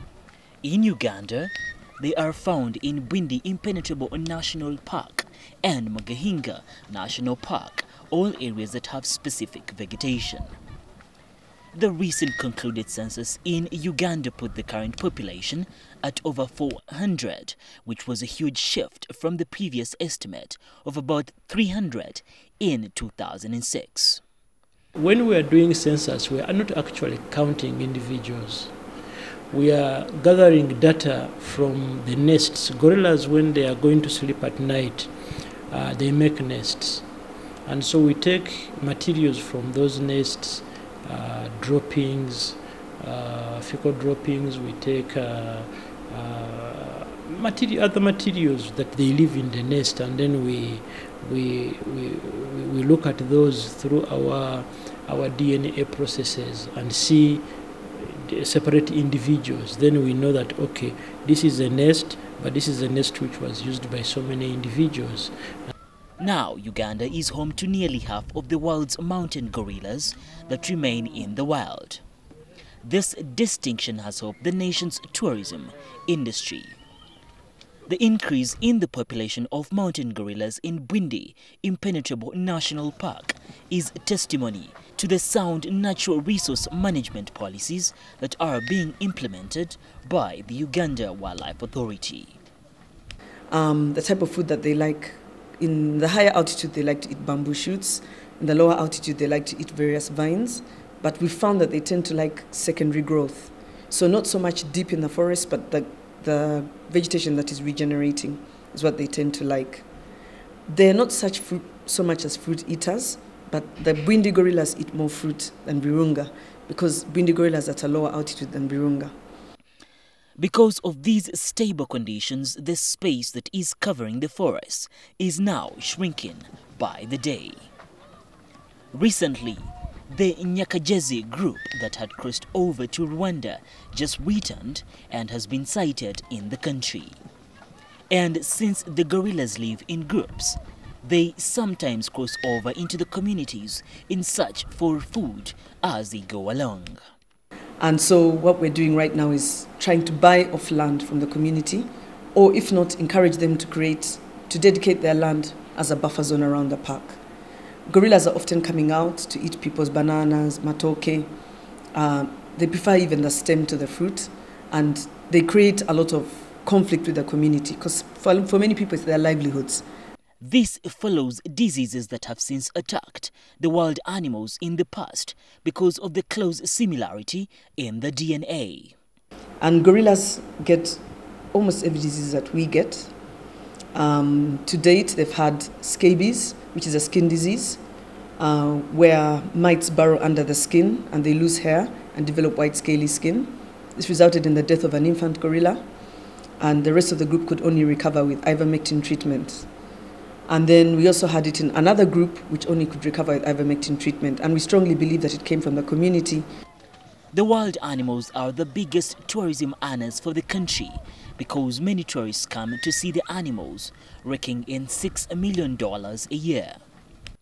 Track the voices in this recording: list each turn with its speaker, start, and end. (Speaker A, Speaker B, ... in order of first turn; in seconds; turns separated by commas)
Speaker A: 0.6-10.6, Speaker A: 11.7-24.2, Speaker B: 24.9-28.7, Speaker B: 29.5-35.1, Speaker B: 35.7-37.1, Speaker B: 37.7-65.3, Speaker A: 66.2-72.0, Speaker A: 72.8-76.8, Speaker A: 77.9-92.4, Speaker C: 93.5-109.9, Speaker C: 110.7-119.1, Speaker A: 120.4-127.7, Speaker A: 128.9-137.2, Speaker A: 138.1-147.0, Speaker C: 147.8-157.2, Speaker C: 157.9-161.3, Speaker C: 161.9-169.9, Speaker A: 170.4-178.9, Speaker C: 179.6-181.0, Speaker C: 181.5-183.1, Speaker C: 183.9-187.8, Speaker C: 188.4-195.8, Speaker C: 196.6-199.7, Speaker C: 200.5-206.5, Speaker A: 207.3-216.8